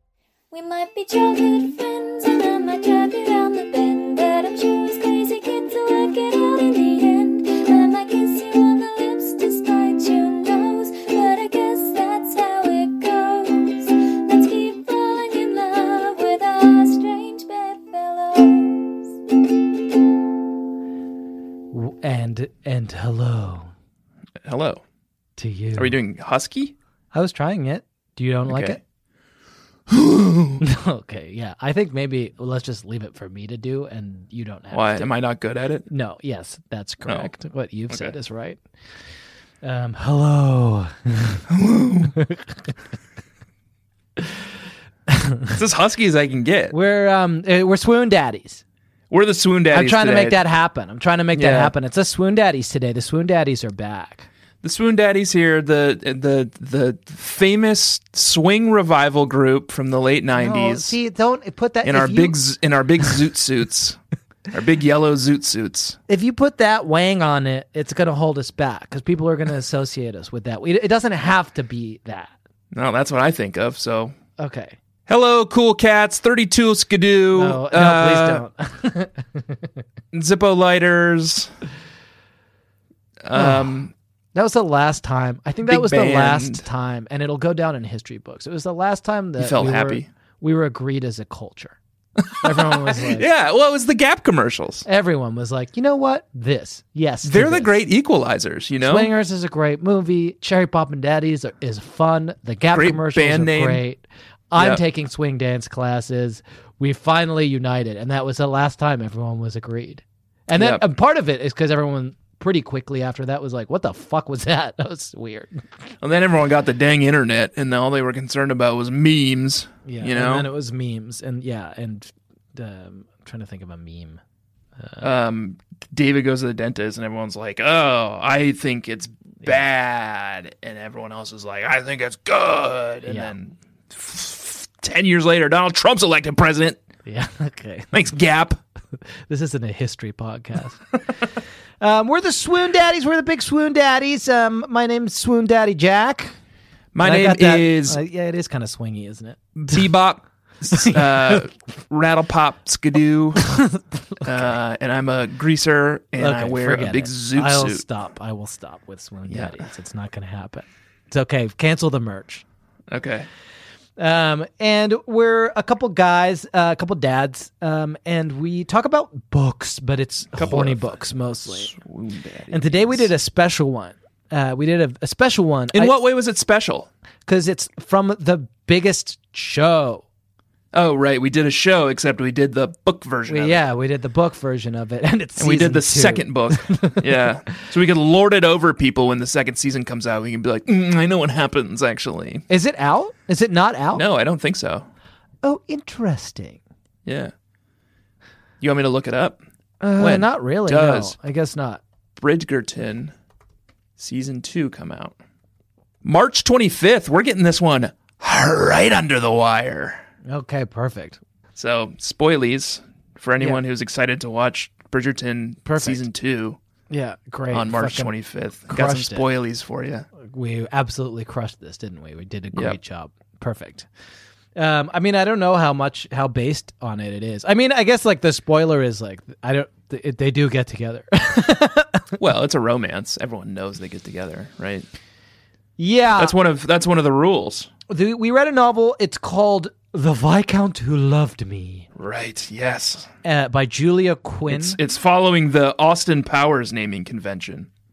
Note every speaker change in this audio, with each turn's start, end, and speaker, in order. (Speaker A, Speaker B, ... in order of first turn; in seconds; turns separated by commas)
Speaker A: 0.5-19.1, Speaker B: 21.7-23.7, Speaker C: 24.4-24.8, Speaker B: 25.4-26.0, Speaker C: 25.8-26.7, Speaker B: 27.1-28.8, Speaker C: 28.5-28.8, Speaker C: 29.9-30.6, Speaker B: 30.6-35.1, Speaker C: 34.7-35.9, Speaker B: 35.9-38.6, Speaker C: 37.0-37.3, Speaker B: 39.6-41.4, Speaker C: 41.5-42.1, Speaker B: 45.1-45.5, Speaker C: 45.5-46.7, Speaker B: 46.7-48.6, Speaker C: 49.1-50.4, Speaker B: 49.7-54.3, Speaker C: 51.3-51.7, Speaker C: 54.6-61.0, Speaker B: 60.4-62.4, Speaker C: 61.8-66.0, Speaker B: 66.1-72.3, Speaker C: 72.7-74.2, Speaker B: 74.4-74.8, Speaker C: 75.1-78.4, Speaker B: 77.3-79.7, Speaker C: 80.1-81.5, Speaker C: 83.2-83.9, Speaker B: 83.3-83.7, Speaker B: 84.3-91.8, Speaker C: 85.6-86.6, Speaker C: 89.4-90.1, Speaker C: 92.3-94.8, Speaker B: 92.4-93.2, Speaker B: 94.8-97.7, Speaker C: 97.2-99.1, Speaker B: 98.8-115.6, Speaker C: 102.7-103.8, Speaker C: 104.5-104.8, Speaker C: 110.5-110.8, Speaker C: 116.0-120.5, Speaker B: 119.8-124.2, Speaker B: 124.8-125.1, Speaker C: 125.0-136.8, Speaker B: 133.0-133.3, Speaker B: 137.1-137.9, Speaker C: 137.9-138.6, Speaker B: 139.3-140.8, Speaker B: 141.8-146.3, Speaker C: 146.9-148.0, Speaker B: 147.0-149.8, Speaker C: 149.6-153.5, Speaker B: 150.7-151.4, Speaker B: 153.4-154.5, Speaker C: 154.2-157.8, Speaker B: 156.2-162.4, Speaker C: 159.3-159.6, Speaker C: 162.9-163.3, Speaker B: 164.0-171.7, Speaker C: 170.3-173.1, Speaker B: 172.5-175.9, Speaker C: 175.7-176.9, Speaker B: 177.3-180.0, Speaker C: 180.7-183.6, Speaker B: 183.3-187.3, Speaker C: 185.4-192.4, Speaker B: 192.5-194.0, Speaker C: 193.9-194.8, Speaker B: 195.4-196.6, Speaker C: 197.0-197.3, Speaker C: 198.6-199.4, Speaker B: 199.8-201.8, Speaker C: 200.0-201.2, Speaker C: 202.2-203.1, Speaker C: 204.0-205.2, Speaker C: 206.0-210.0, Speaker B: 210.3-211.2, Speaker C: 211.5-216.6, Speaker B: 215.6-216.0, Speaker B: 216.9-218.1, Speaker C: 217.5-220.1, Speaker B: 218.7-219.2, Speaker B: 220.2-223.9, Speaker B: 224.6-232.1, Speaker C: 232.2-234.8, Speaker B: 235.8-236.4, Speaker C: 236.2-237.7, Speaker B: 237.9-241.9, Speaker C: 241.9-243.1, Speaker B: 243.2-244.8, Speaker C: 244.5-247.7